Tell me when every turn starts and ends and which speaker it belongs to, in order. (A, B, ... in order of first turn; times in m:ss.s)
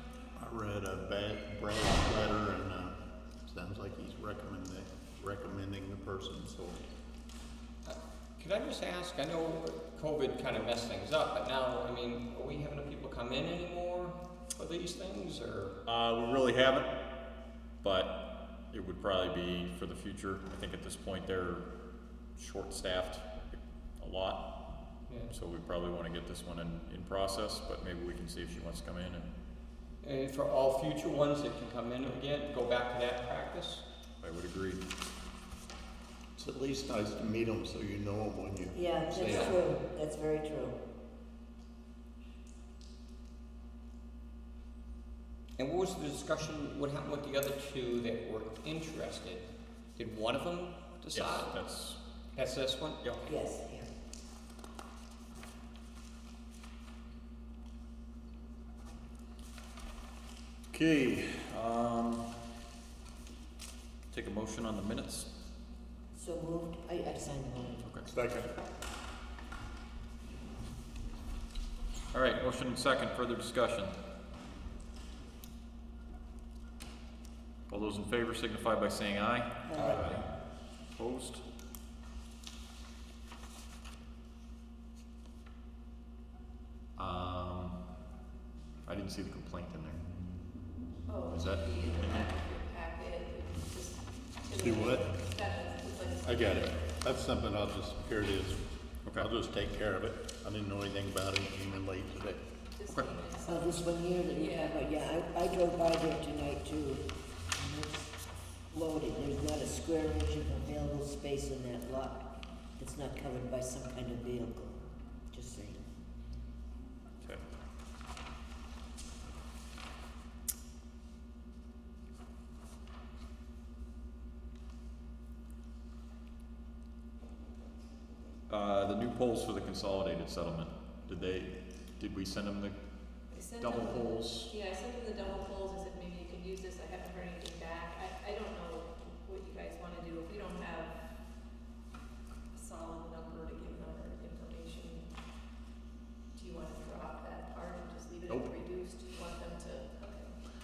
0:00.4-0:06.8 A
0:07.8-0:15.8 B
0:15.8-0:16.9 C
0:17.8-0:18.2 C
0:18.7-0:21.7 C
0:22.4-0:24.4 C
0:25.3-0:29.3 C
0:30.0-0:33.8 B
0:34.2-0:34.8 C
0:36.4-0:39.6 A
0:38.7-0:40.8 D
0:39.2-0:39.6 B
0:45.6-0:51.5 B
0:51.1-0:52.0 C
0:52.4-0:53.0 B
0:53.0-0:53.3 C
0:53.2-0:53.9 D
1:00.7-1:02.2 C
1:04.1-1:05.3 C
1:06.1-1:07.9 D
1:08.1-1:08.5 A
1:12.1-1:13.9 C
1:17.7-1:20.1 C
1:19.7-1:20.0 D
1:20.9-1:21.4 C
1:27.0-1:27.8 C
1:28.8-1:30.0 C
1:31.1-1:36.9 E
1:31.3-1:32.2 C
1:34.5-1:35.1 A
1:36.2-1:38.6 A
1:39.1-1:42.4 A
1:42.7-1:44.8 E
1:43.4-1:48.1 D
1:48.7-1:52.2 D
1:52.8-1:54.8 D
1:55.3-1:55.8 D
2:08.5-2:12.8 C
2:13.3-2:21.0 E
2:13.6-2:14.5 C
2:22.5-2:25.1 E
2:26.3-2:30.3 E